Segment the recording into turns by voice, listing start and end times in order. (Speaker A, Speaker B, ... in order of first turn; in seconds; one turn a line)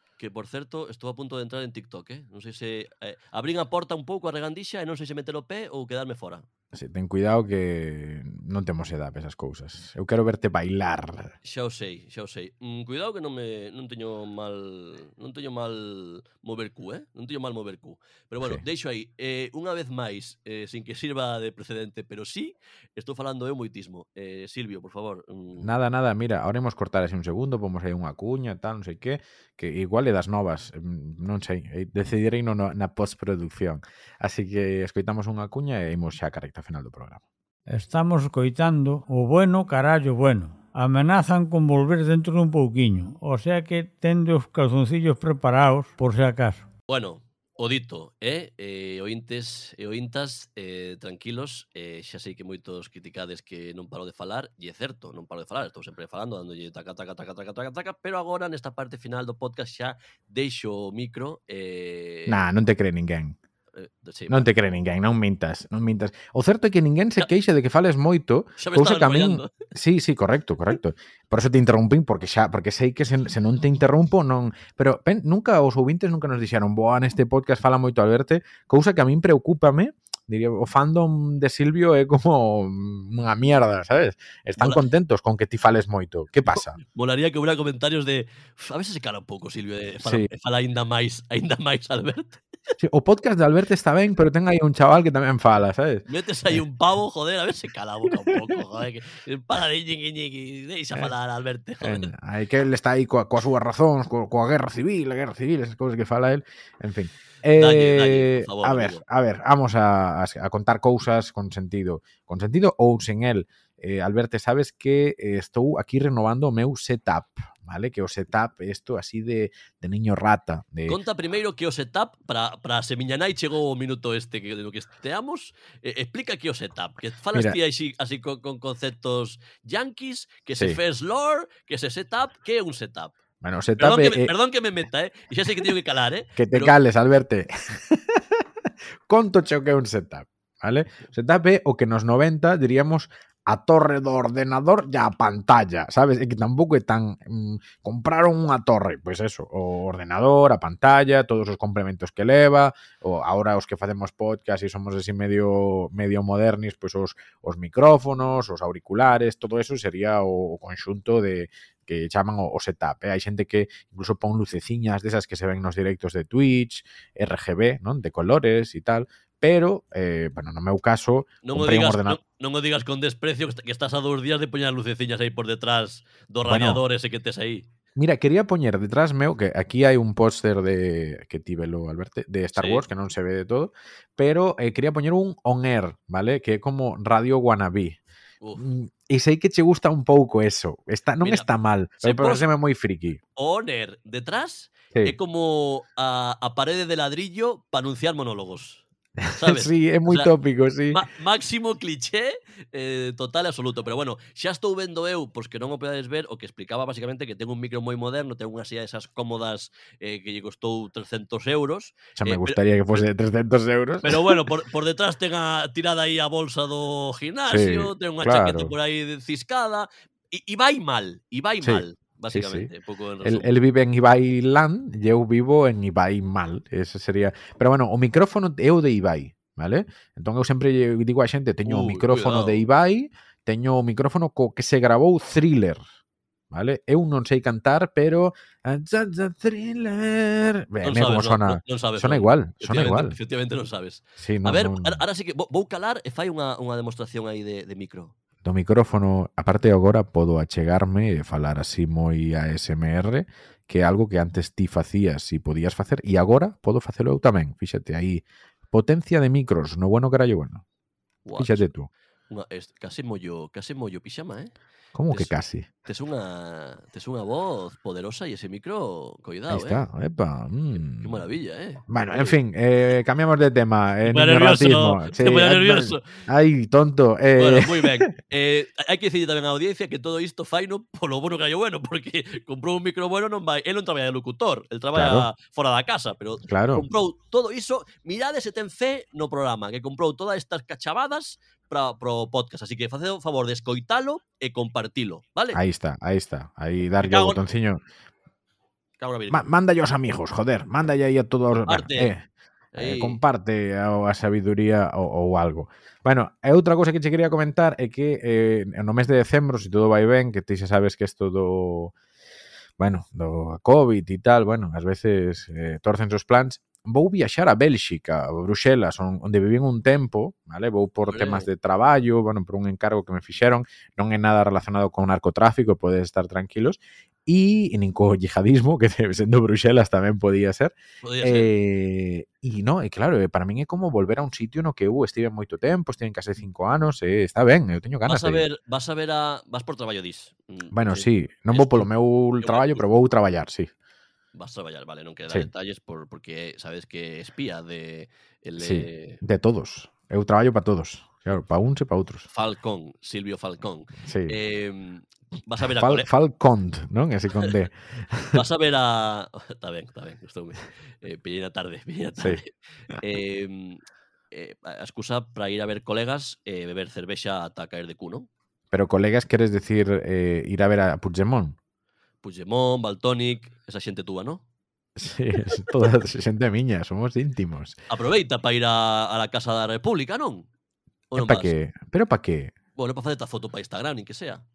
Speaker A: 0.2-6.5
Speaker B: 6.7-11.3
Speaker A: 11.4-25.7
Speaker B: 25.6-37.2
Speaker C: 37.7-46.7
Speaker A: 46.9-62.4
Speaker B: 62.3-63.4
Speaker A: 63.8-64.5
Speaker B: 64.3-86.8
Speaker A: 68.6-69.5
Speaker A: 86.5-92.4
Speaker B: 92.8-96.0
Speaker A: 96.1-102.1
Speaker B: 101.8-121.0
Speaker A: 107.6-109.0
Speaker A: 120.9-133.1
Speaker B: 133.4-134.3
Speaker A: 133.8-136.8
Speaker B: 136.4-138.2
Speaker B: 139.1-172.2
Speaker A: 171.4-177.7
Speaker B: 176.4-176.8
Speaker B: 177.9-188.0
Speaker A: 182.6-182.8
Speaker B: 188.6-193.2
Speaker A: 191.2-191.5
Speaker A: 192.0-192.4
Speaker A: 193.4-198.8
Speaker B: 199.2-201.0
Speaker A: 199.4-200.3
Speaker A: 200.9-213.0
Speaker B: 212.2-214.5
Speaker A: 214.0-223.5
Speaker B: 217.5-218.7
Speaker B: 221.6-222.7
Speaker B: 223.2-235.8
Speaker A: 231.6-232.6
Speaker B: 236.5-243.2
Speaker A: 240.8-248.1
Speaker B: 244.2-245.0
Speaker B: 248.4-260.6
Speaker A: 261.2-261.7
Speaker B: 261.4-261.9
Speaker A: 262.3-264.5
Speaker B: 264.9-265.7
Speaker A: 265.9-269.9
Speaker B: 269.5-271.1
Speaker A: 270.7-272.4
Speaker B: 271.9-278.1
Speaker A: 274.1-276.1
Speaker A: 277.4-295.6
Speaker B: 284.9-285.3
Speaker B: 286.5-286.9
Speaker B: 295.5-297.8
Speaker A: 297.0-297.4
Speaker A: 299.0-299.5
Speaker B: 299.3-311.9
Speaker A: 301.7-302.1
Speaker A: 302.7-303.2
Speaker B: 312.8-338.4
Speaker A: 321.1-321.5
Speaker A: 331.0-331.5
Speaker A: 338.1-342.8
Speaker B: 340.7-343.7
Speaker A: 344.3-349.2
Speaker B: 348.6-352.3
Speaker A: 352.3-356.1
Speaker B: 354.1-354.4
Speaker B: 355.8-358.4
Speaker A: 358.3-368.3
Speaker B: 368.7-371.6
Speaker A: 372.2-374.4
Speaker B: 375.0-377.8
Speaker A: 377.9-380.5
Speaker A: 381.1-381.5
Speaker B: 381.2-382.5
Speaker A: 382.8-384.4